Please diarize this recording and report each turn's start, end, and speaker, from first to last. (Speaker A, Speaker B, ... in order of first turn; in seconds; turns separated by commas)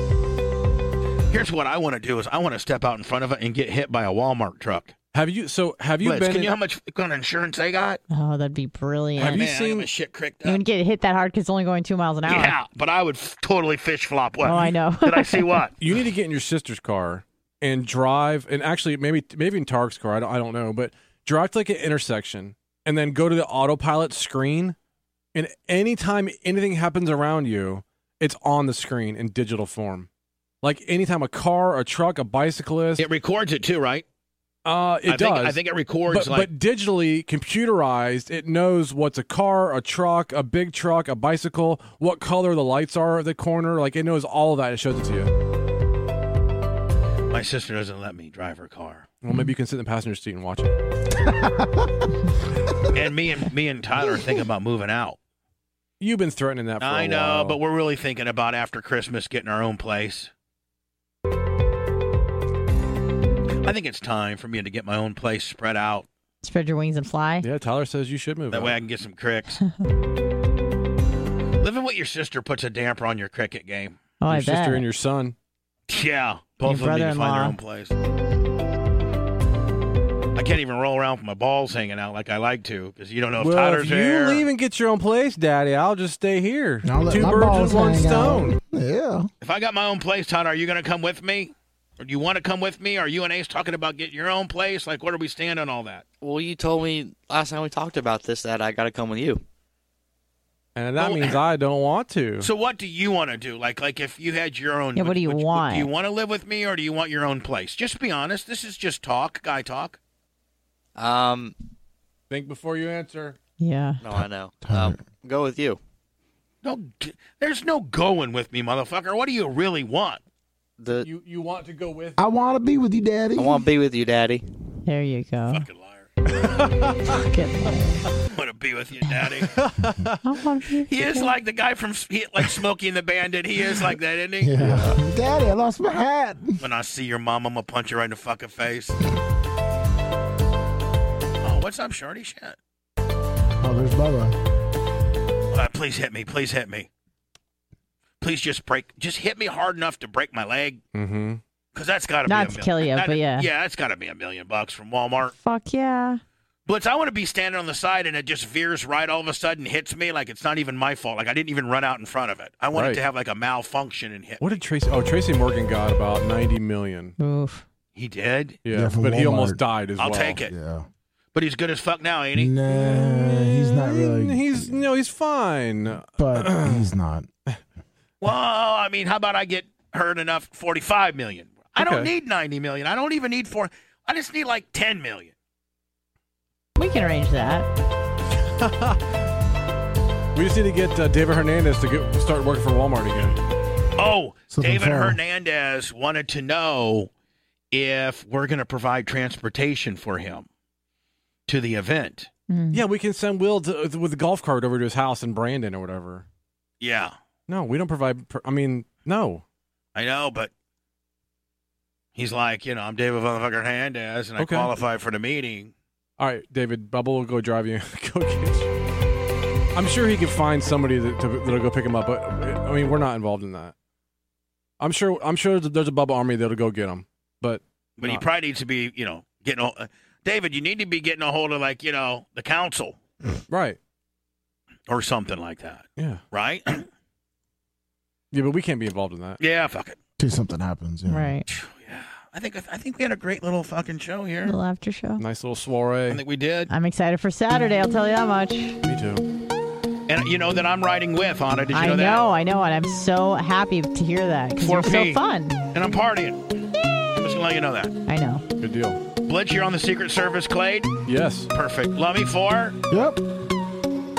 Speaker A: 1.3-4.9, Speaker B: 5.1-6.5, Speaker A: 6.0-8.0, Speaker C: 8.1-9.4, Speaker A: 9.2-10.6, Speaker B: 9.2-9.9, Speaker C: 10.4-12.6, Speaker A: 12.2-15.8, Speaker C: 14.4-15.6, Speaker B: 15.8-24.7, Speaker B: 25.3-30.1, Speaker B: 30.6-33.1, Speaker A: 33.0-34.0, Speaker B: 34.6-45.3, Speaker A: 35.1-36.5, Speaker A: 47.3-49.1, Speaker B: 49.2-50.7, Speaker D: 51.3-51.7, Speaker A: 52.9-55.2, Speaker B: 56.0-57.6, Speaker A: 56.8-60.3, Speaker A: 63.6-66.1, Speaker C: 66.4-67.5, Speaker B: 67.4-68.8, Speaker A: 68.5-69.6, Speaker A: 71.6-74.0, Speaker C: 74.2-74.8, Speaker B: 74.3-75.3, Speaker A: 75.9-77.9, Speaker C: 76.6-77.5, Speaker A: 80.3-84.4, Speaker B: 83.4-88.6, Speaker D: 86.8-89.3, Speaker A: 89.4-96.0, Speaker E: 96.2-99.4, Speaker B: 100.8-102.5, Speaker A: 101.0-101.4, Speaker A: 102.4-110.0, Speaker C: 105.0-105.9, Speaker E: 111.0-111.5, Speaker B: 112.3-113.4, Speaker C: 113.6-114.0, Speaker E: 114.0-115.8, Speaker D: 114.6-115.0, Speaker A: 116.6-120.2, Speaker E: 120.8-121.1, Speaker B: 121.0-122.2, Speaker D: 122.2-123.7, Speaker E: 123.4-124.4, Speaker C: 124.8-125.7, Speaker A: 125.5-126.1, Speaker B: 126.6-127.0, Speaker C: 127.0-128.1, Speaker A: 128.3-129.5, Speaker B: 129.5-130.3, Speaker C: 130.2-131.3, Speaker A: 130.9-134.6, Speaker D: 134.4-136.6, Speaker B: 134.6-135.0, Speaker A: 136.6-139.0, Speaker A: 141.4-142.6, Speaker D: 143.6-144.3, Speaker A: 145.5-146.9, Speaker A: 148.2-150.8, Speaker B: 150.9-151.4, Speaker A: 151.7-155.3, Speaker C: 152.3-153.5, Speaker C: 155.4-156.2, Speaker A: 156.7-164.5, Speaker B: 162.7-163.0, Speaker B: 164.4-167.1, Speaker C: 167.2-167.6, Speaker A: 167.9-168.6, Speaker B: 168.6-170.4, Speaker D: 168.7-169.6, Speaker A: 170.0-170.5, Speaker D: 170.5-170.9, Speaker A: 171.3-172.5, Speaker D: 172.3-174.9, Speaker B: 172.7-176.9, Speaker D: 176.1-177.3, Speaker A: 178.2-185.3, Speaker B: 181.8-182.1, Speaker C: 186.8-187.7, Speaker B: 188.6-189.3, Speaker B: 190.3-193.4, Speaker A: 194.0-197.1, Speaker D: 194.5-195.2, Speaker A: 197.7-200.4, Speaker A: 201.5-202.3, Speaker C: 202.5-202.8, Speaker B: 202.7-206.2, Speaker A: 206.8-207.1, Speaker B: 207.5-209.4, Speaker A: 209.9-210.5, Speaker A: 212.2-215.7, Speaker B: 214.4-214.7, Speaker B: 216.2-218.7, Speaker B: 219.7-223.7, Speaker B: 224.8-228.2, Speaker A: 228.0-233.0, Speaker B: 233.5-233.8, Speaker A: 234.9-236.9, Speaker B: 236.0-236.2, Speaker B: 238.3-239.4, Speaker A: 239.4-240.0, Speaker D: 240.2-241.4, Speaker C: 241.1-241.4, Speaker A: 241.5-244.6, Speaker C: 244.4-245.2, Speaker B: 245.2-246.2, Speaker A: 246.1-246.7, Speaker C: 246.7-248.8, Speaker B: 248.8-249.2, Speaker A: 250.1-252.2, Speaker C: 251.7-255.6, Speaker A: 254.6-255.2, Speaker A: 255.7-256.4, Speaker A: 257.2-257.9, Speaker C: 258.1-258.4, Speaker B: 258.6-259.0, Speaker A: 259.2-260.9, Speaker B: 261.1-261.5, Speaker A: 261.5-262.8, Speaker D: 262.9-263.2